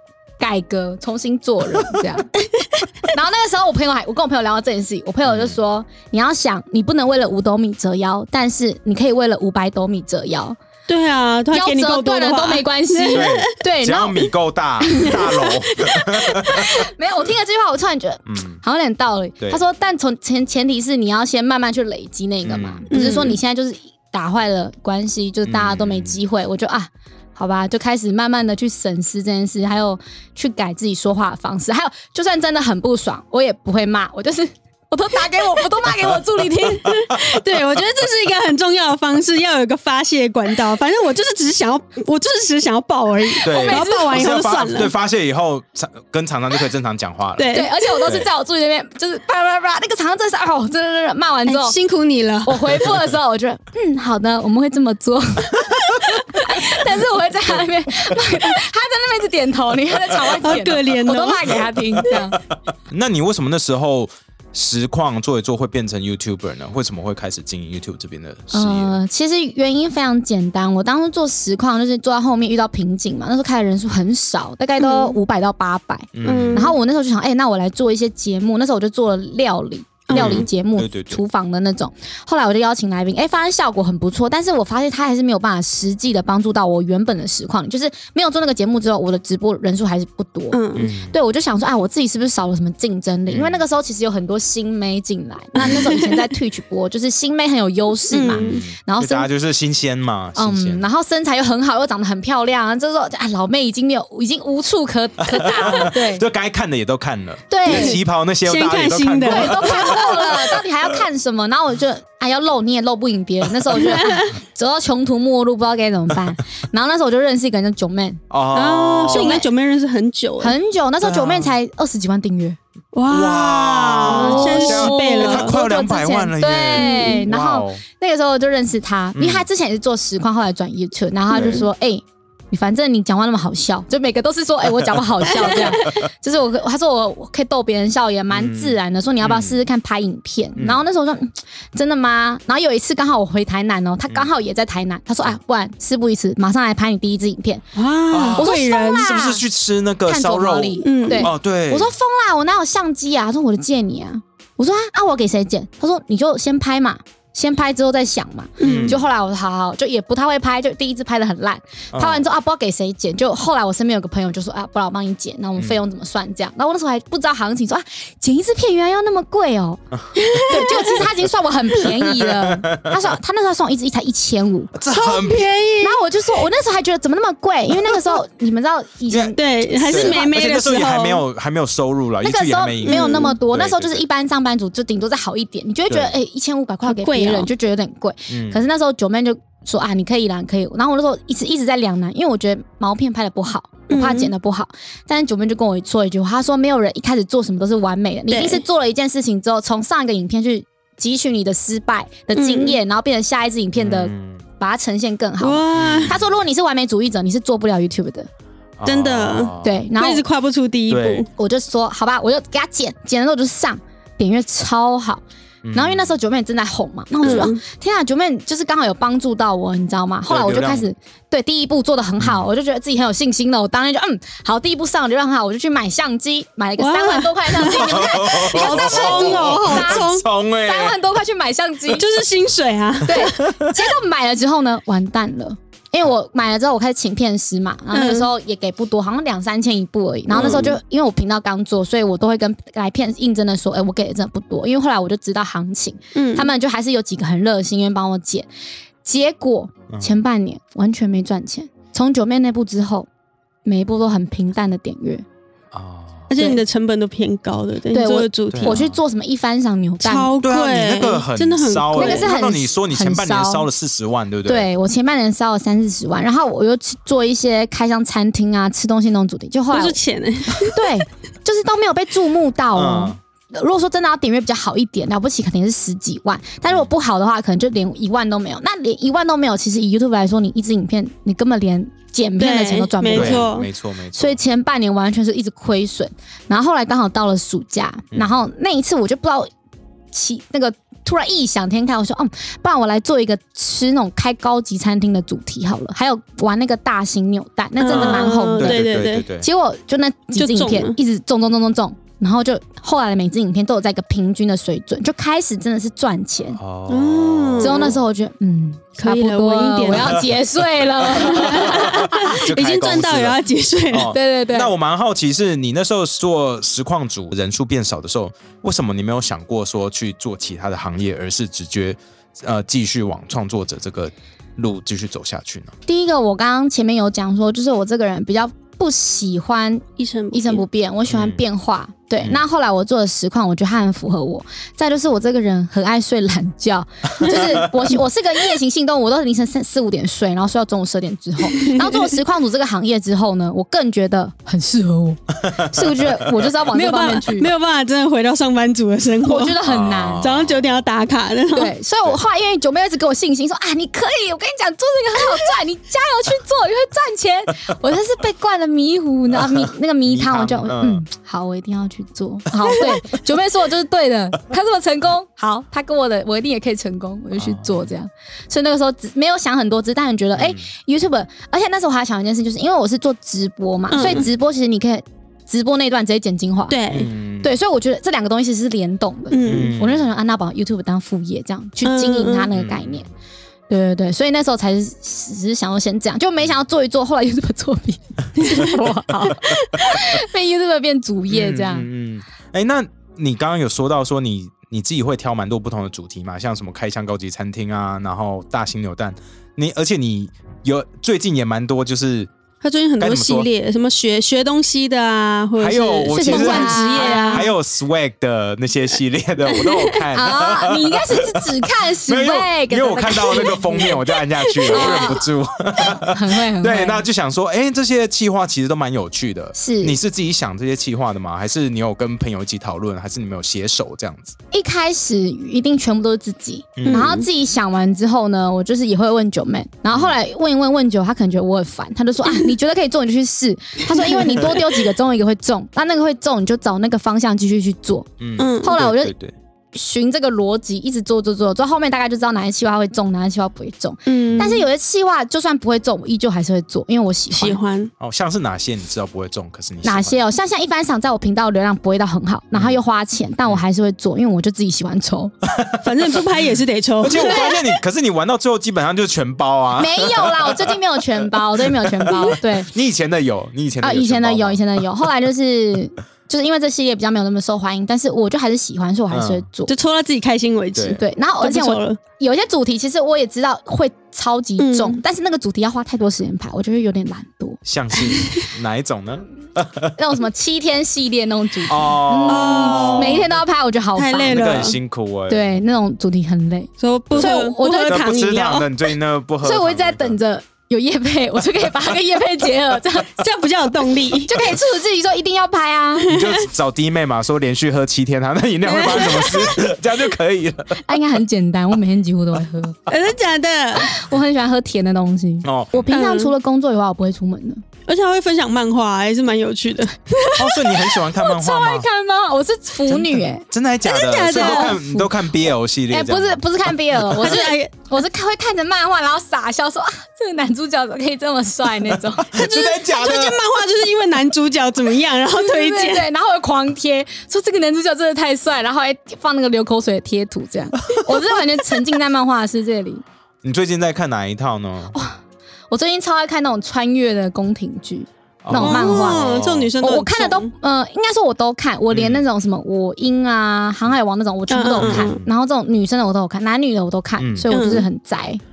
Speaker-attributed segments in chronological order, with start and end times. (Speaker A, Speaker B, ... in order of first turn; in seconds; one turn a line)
Speaker A: 0.4-2.3
Speaker A: 3.1-10.6
Speaker B: 5.2-5.6
Speaker C: 10.9-13.5
Speaker A: 11.5-14.3
Speaker B: 13.1-16.9
Speaker A: 14.8-37.0
Speaker B: 18.3-18.6
Speaker B: 22.4-22.9
Speaker C: 22.9-23.4
Speaker B: 25.4-26.2
Speaker C: 36.9-44.9
Speaker A: 43.4-44.2
Speaker B: 43.4-47.5
Speaker C: 47.4-47.8
Speaker A: 47.5-51.8
Speaker C: 51.5-52.6
Speaker A: 52.4-62.4
Speaker C: 60.4-61.6
Speaker B: 62.0-62.3
Speaker B: 62.9-69.0
Speaker A: 68.5-99.3
Speaker C: 74.8-75.2
Speaker B: 76.1-76.8
Speaker C: 76.2-76.8
Speaker C: 80.1-80.5
Speaker B: 80.1-81.2
Speaker C: 90.5-90.9
Speaker B: 90.8-91.2
Speaker B: 93.3-93.6
Speaker C: 95.5-96.3
Speaker B: 95.6-95.9
Speaker C: 98.1-98.6
Speaker B: 98.3-100.9
Speaker A: 100.4-106.2
Speaker B: 105.2-110.6
Speaker A: 107.5-108.0
Speaker C: 107.7-110.2
Speaker A: 109.2-118.2
Speaker C: 113.8-114.3
Speaker B: 118.3-119.4
Speaker C: 118.5-120.5
Speaker A: 119.1-119.5
Speaker A: 120.4-122.6
Speaker B: 121.0-121.5
Speaker C: 122.9-125.5
Speaker B: 123.1-127.8
Speaker A: 124.1-147.6
Speaker C: 126.8-127.2
Speaker B: 129.2-129.5
Speaker C: 131.3-131.6
Speaker B: 131.3-131.6
Speaker B: 134.8-136.1
Speaker B: 138.3-139.6
Speaker B: 140.6-140.8
Speaker C: 147.8-149.2
Speaker B: 148.1-151.9
Speaker A: 148.3-149.4
Speaker A: 150.1-174.8
Speaker C: 150.8-151.3
Speaker C: 158.6-159.0
Speaker B: 158.6-159.0
Speaker B: 161.9-162.2
Speaker B: 169.9-170.4
Speaker C: 170.2-171.1
Speaker B: 171.8-173.0
Speaker B: 174.7-175.5
Speaker C: 174.9-176.4
Speaker A: 175.8-180.4
Speaker B: 179.1-179.3
Speaker C: 179.3-181.2
Speaker B: 179.9-184.0
Speaker A: 182.2-208.3
Speaker C: 182.8-183.3
Speaker B: 185.9-186.1
Speaker C: 186.8-187.5
Speaker B: 188.3-188.6
Speaker C: 193.9-194.3
Speaker C: 198.3-198.6
Speaker C: 202.3-202.8
Speaker B: 203.8-204.4
Speaker C: 205.4-206.1
Speaker B: 205.7-206.4
Speaker B: 208.8-209.8
Speaker C: 208.8-211.3
Speaker A: 209.6-210.2
Speaker B: 210.9-211.3
Speaker A: 211.3-232.1
Speaker B: 215.6-216.2
Speaker C: 217.2-217.6
Speaker B: 220.3-220.9
Speaker B: 222.2-222.5
Speaker C: 226.8-230.2
Speaker B: 227.7-231.0
Speaker C: 231.9-233.5
Speaker A: 233.0-248.5
Speaker B: 233.2-233.7
Speaker C: 237.9-238.3
Speaker B: 240.3-240.8
Speaker C: 246.2-246.5
Speaker A: 249.0-253.1
Speaker B: 249.9-250.2
Speaker A: 253.7-255.2
Speaker B: 255.7-256.3
Speaker C: 256.3-258.8
Speaker A: 257.9-260.3
Speaker B: 258.5-259.0
Speaker C: 260.0-262.3
Speaker B: 260.4-264.7
Speaker A: 261.9-263.7
Speaker A: 264.5-270.0
Speaker C: 269.7-270.8
Speaker A: 270.6-283.5
Speaker B: 272.7-273.2
Speaker C: 282.4-283.7
Speaker B: 283.1-284.4
Speaker A: 284.1-289.5
Speaker A: 290.1-306.6
Speaker C: 297.8-299.2
Speaker B: 297.9-299.5
Speaker C: 300.3-301.0
Speaker B: 306.6-308.0
Speaker C: 306.9-308.0
Speaker A: 307.6-312.4
Speaker C: 309.0-310.3
Speaker C: 311.2-314.1
Speaker B: 311.2-325.7
Speaker A: 314.1-314.7
Speaker A: 325.9-347.5
Speaker C: 330.0-330.6
Speaker B: 331.1-331.4
Speaker C: 337.2-337.6
Speaker C: 341.5-342.2
Speaker B: 345.4-346.5
Speaker C: 346.7-349.6
Speaker A: 349.2-350.2
Speaker B: 349.6-350.8
Speaker C: 350.2-351.7
Speaker A: 351.5-376.8
Speaker B: 359.5-361.0
Speaker B: 362.7-362.9
Speaker B: 367.4-367.9
Speaker B: 370.4-370.7
Speaker C: 373.9-374.3
Speaker C: 376.7-377.1
Speaker B: 376.9-377.5
Speaker A: 377.4-383.1
Speaker C: 379.3-379.7
Speaker B: 379.5-380.1
Speaker C: 381.8-382.5
Speaker B: 382.5-383.1
Speaker A: 383.7-391.9
Speaker C: 388.4-389.7
Speaker B: 391.3-402.3
Speaker C: 402.6-407.5
Speaker B: 403.0-403.5
Speaker B: 405.6-411.5
Speaker A: 406.1-407.5
Speaker C: 409.5-410.0
Speaker A: 410.1-413.9
Speaker B: 412.0-424.3
Speaker C: 413.8-415.2
Speaker A: 414.7-415.2
Speaker A: 415.8-417.0
Speaker A: 419.5-420.0
Speaker A: 424.5-439.1
Speaker B: 426.8-427.2
Speaker C: 426.8-427.2
Speaker C: 433.9-434.5
Speaker B: 438.2-439.3
Speaker C: 438.4-438.7
Speaker A: 439.7-447.6
Speaker C: 444.1-444.6
Speaker C: 447.3-447.9
Speaker B: 448.0-450.2
Speaker A: 449.8-455.3
Speaker B: 452.5-452.8
Speaker B: 455.5-455.8
Speaker C: 455.8-457.6
Speaker B: 457.0-464.8
Speaker A: 457.2-457.6
Speaker A: 459.8-462.7
Speaker A: 463.8-469.7
Speaker B: 469.1-469.4
Speaker C: 469.7-472.0
Speaker B: 470.8-471.0
Speaker A: 470.9-478.1
Speaker C: 474.6-475.0
Speaker B: 477.6-480.0
Speaker A: 480.0-484.6
Speaker B: 481.7-483.4
Speaker C: 482.2-483.3
Speaker C: 483.9-484.8
Speaker B: 484.3-485.6
Speaker A: 485.3-488.1
Speaker C: 486.8-488.7
Speaker B: 487.1-490.2
Speaker A: 489.4-493.2
Speaker C: 493.2-494.3
Speaker A: 494.2-496.1
Speaker B: 496.1-500.8
Speaker C: 496.1-496.4
Speaker C: 498.7-499.6
Speaker A: 500.8-502.8
Speaker C: 502.9-503.9
Speaker A: 503.7-507.6
Speaker B: 505.4-505.9
Speaker C: 505.9-506.3
Speaker C: 507.9-511.0
Speaker B: 510.4-511.9
Speaker A: 511.1-513.5
Speaker B: 512.9-517.3
Speaker C: 513.8-514.8
Speaker A: 514.3-515.1
Speaker A: 515.9-522.4
Speaker C: 517.2-517.7
Speaker B: 521.9-523.4
Speaker C: 522.3-526.1
Speaker A: 525.3-533.0
Speaker B: 533.4-535.0
Speaker A: 534.9-535.2
Speaker A: 535.7-548.4
Speaker B: 538.4-539.7
Speaker C: 538.5-540.5
Speaker B: 541.9-542.2
Speaker C: 544.5-545.2
Speaker B: 544.8-545.3
Speaker B: 547.2-547.5
Speaker C: 547.5-547.9